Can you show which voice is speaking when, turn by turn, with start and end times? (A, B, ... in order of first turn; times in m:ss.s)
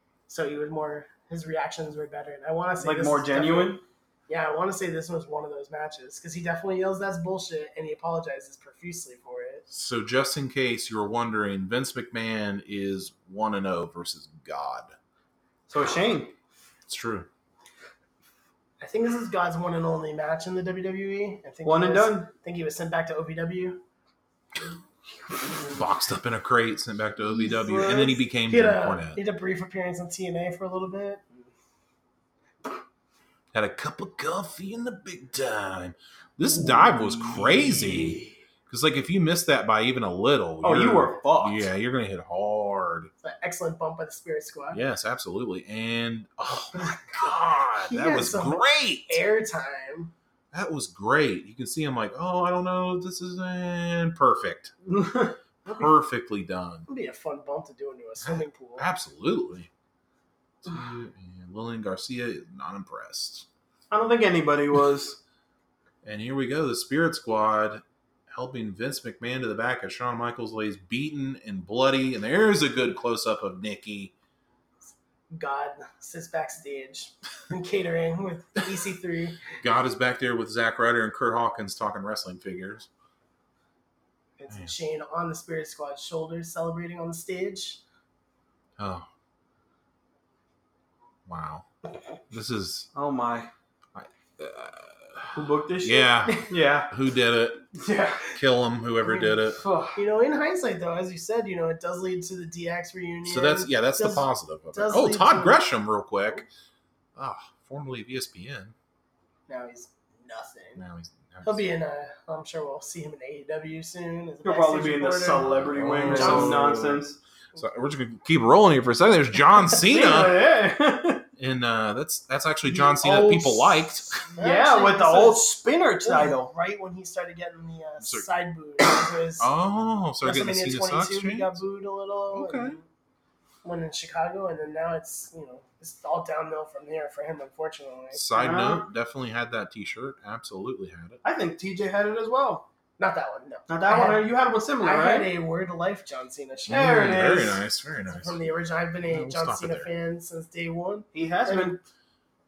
0:00.3-0:09.6 A
0:02.8-0:03.8 B
0:09.7-0:14.9 C
0:15.7-0:16.3 B
0:16.9-0:17.3 C
0:18.8-0:23.8 A
0:21.6-0:22.3 B
0:25.6-0:29.2 C
0:27.4-0:28.2 B
0:28.4-0:31.5 A
0:33.5-0:43.1 C
0:36.6-0:38.3 B
0:40.6-0:41.7 B
0:43.2-0:44.8 A
0:44.7-0:49.2 C
0:46.8-0:50.1 A
0:50.5-0:54.7 C
0:54.9-0:55.4 B
0:55.7-0:56.9 C
0:56.9-0:58.9 A
0:58.2-0:59.7 C
1:00.6-1:03.5 C
1:03.9-1:05.2 B
1:06.0-1:14.1 C
1:15.3-1:19.6 A
1:19.6-1:22.9 C
1:24.4-1:27.8 A
1:28.8-1:29.1 C
1:31.3-1:31.7 C
1:32.3-1:32.9 C
1:32.9-1:33.5 B
1:34.0-1:37.7 C
1:35.3-1:36.9 B
1:37.7-1:38.4 B
1:38.4-1:39.6 C
1:39.0-1:39.4 A
1:39.5-1:40.0 B
1:39.9-1:45.6 A
1:43.2-1:46.5 C
1:47.2-1:48.8 C
1:49.5-1:50.8 A
1:50.8-1:51.6 C
1:51.4-1:56.8 A
1:54.4-1:57.2 B
1:55.4-2:00.4 C
1:59.8-2:01.3 B
2:01.4-2:04.2 C
2:02.7-2:06.5 B
2:04.3-2:09.5 A
2:08.0-2:08.3 C
2:09.4-2:11.6 C
2:10.2-2:12.8 A
2:12.3-2:12.8 C
2:13.6-2:18.2 A
2:18.1-2:21.2 C
2:18.4-2:18.9 B
2:21.2-2:22.7 B
2:23.0-2:27.4 A
2:23.7-2:25.3 B
2:26.7-2:27.6 B
2:26.7-2:28.4 C
2:28.1-2:31.8 A
2:29.1-2:29.9 C
2:31.1-2:31.8 B